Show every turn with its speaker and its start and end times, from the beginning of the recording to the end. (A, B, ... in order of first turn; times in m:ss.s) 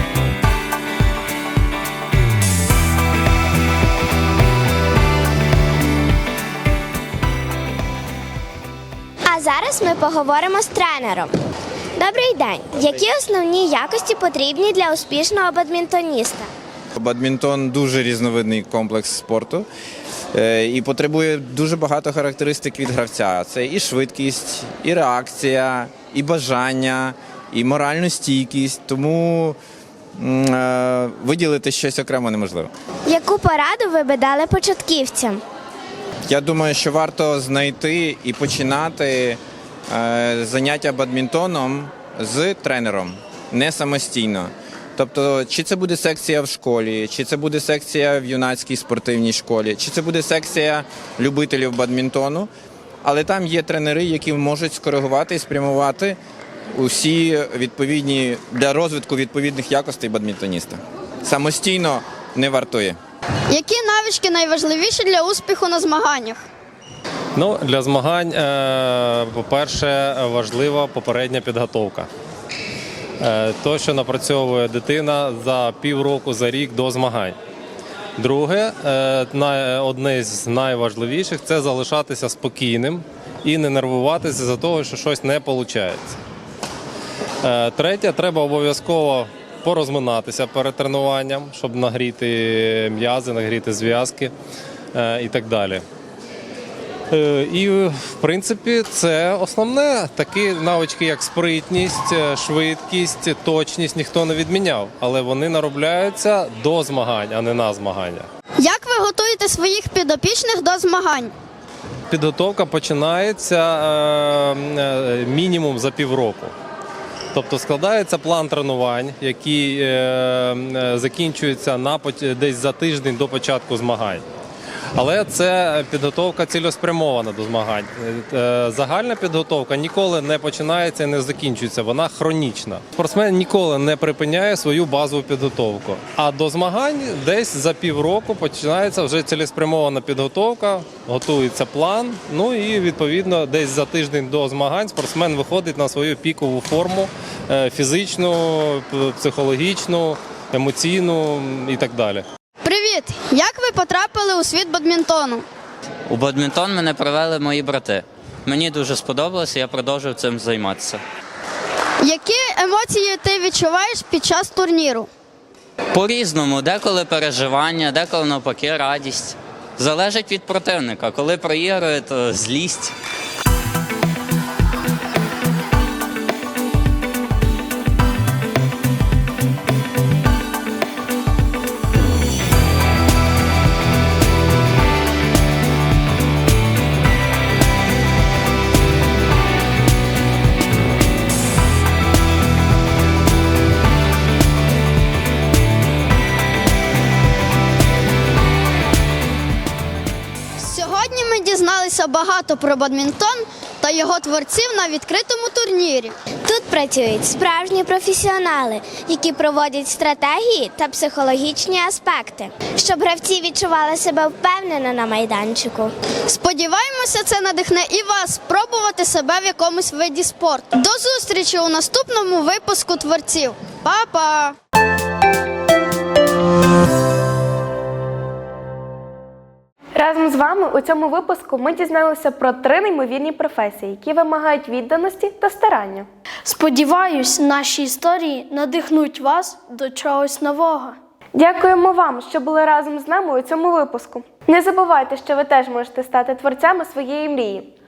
0:09.2-0:11.3 A
0:12.0-0:16.5 A
0:12.8-0:13.1 B
0:17.0-0:19.7 B
0:20.3-0:29.6 B
0:30.2-0:32.7 B
0:33.1-0:35.4 A
0:36.3-0:52.5 B
0:53.0-0:56.2 B
0:56.7-1:03.0 B
1:03.5-1:06.4 C
1:07.4-1:12.1 D
1:13.2-1:17.4 D
1:18.2-1:26.2 D
1:27.4-1:34.3 D
1:34.9-1:35.8 D
1:37.1-1:48.3 D
1:48.6-1:51.3 C
1:52.1-1:56.5 D
1:57.3-2:04.2 D
2:05.0-2:32.2 D
2:32.6-2:35.4 C
2:36.1-2:41.0 E
2:42.0-2:45.1 C
2:45.9-2:52.9 E
3:20.6-3:26.2 C
3:26.4-3:35.9 A
3:36.3-3:44.6 C
3:50.0-3:56.1 F
3:56.4-4:01.0 G
4:01.3-4:07.7 F